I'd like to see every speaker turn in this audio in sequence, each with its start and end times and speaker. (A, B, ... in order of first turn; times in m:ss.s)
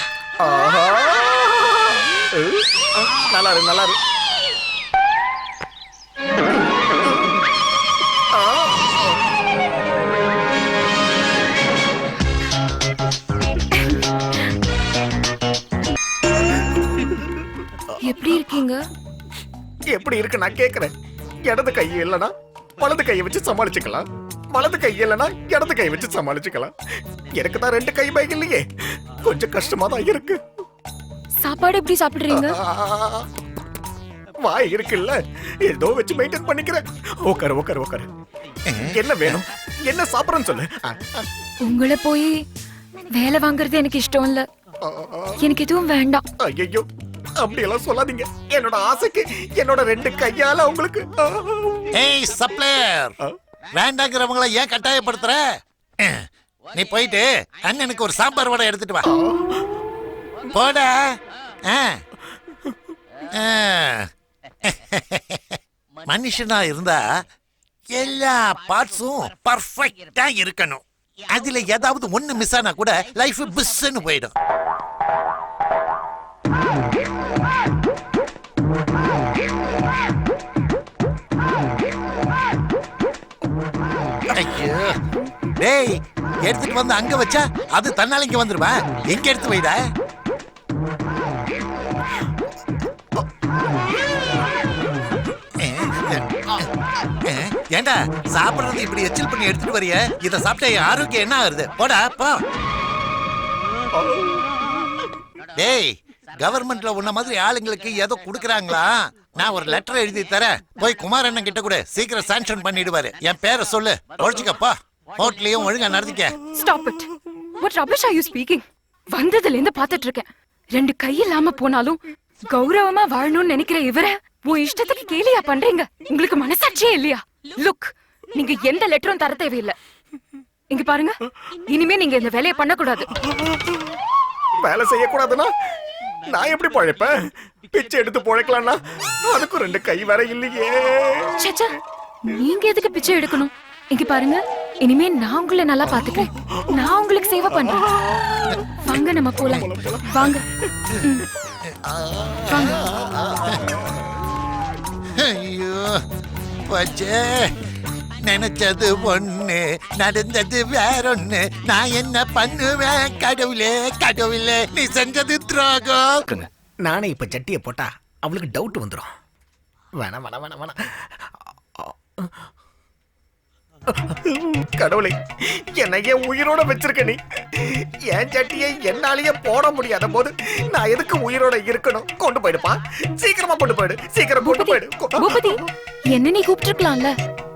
0:00.4-0:04.0 A
0:08.3-0:09.2 A
0:18.0-0:18.8 B
0:19.9-0:20.9 A
0:21.4-0:26.7 A
0:27.3-0:28.7 A
0:29.2-0:30.4 A
0:31.4-0:32.6 B
0:32.3-0:33.3 A
0:34.4-0:38.1 A
0:38.7-0:39.4 C
0:38.8-0:41.2 A
0:41.6-0:42.3 B
0:43.1-0:44.4 B
0:44.8-0:45.4 A
0:45.4-0:46.2 B
0:46.4-0:46.9 A
0:47.4-0:51.9 A
0:51.9-0:53.1 C
0:53.7-0:55.4 C
0:56.0-0:59.1 C
0:59.0-0:59.7 A
1:00.5-1:01.0 C
1:01.6-1:02.0 C
1:03.3-1:04.1 C
1:04.6-1:07.0 C
1:07.9-1:10.8 C
1:11.3-1:14.3 C
1:24.3-1:24.9 C
1:25.6-1:29.8 C
1:35.6-1:36.7 C
1:37.2-1:42.4 C
1:43.9-1:45.1 A
1:45.6-1:56.4 C
1:56.5-2:09.8 B
2:10.7-2:11.2 B
2:11.7-2:13.1 B
2:13.3-2:13.6 A
2:14.6-2:15.5 A
2:16.3-2:17.1 A
2:17.7-2:21.5 A
2:21.4-2:21.7 B
2:22.2-2:27.8 B
2:25.9-2:26.8 A
2:27.5-2:28.6 A
2:28.8-2:30.4 B
2:29.4-2:30.7 A
2:31.6-2:32.9 C
2:32.5-2:32.8 B
2:33.0-2:33.8 A
2:33.5-2:33.8 C
2:35.2-2:36.0 C
2:36.7-2:37.5 C
2:38.2-2:46.2 C
2:46.8-2:49.1 A
2:50.0-2:52.3 A
2:53.9-3:05.6 A
3:04.4-3:05.6 B
3:06.1-3:07.1 B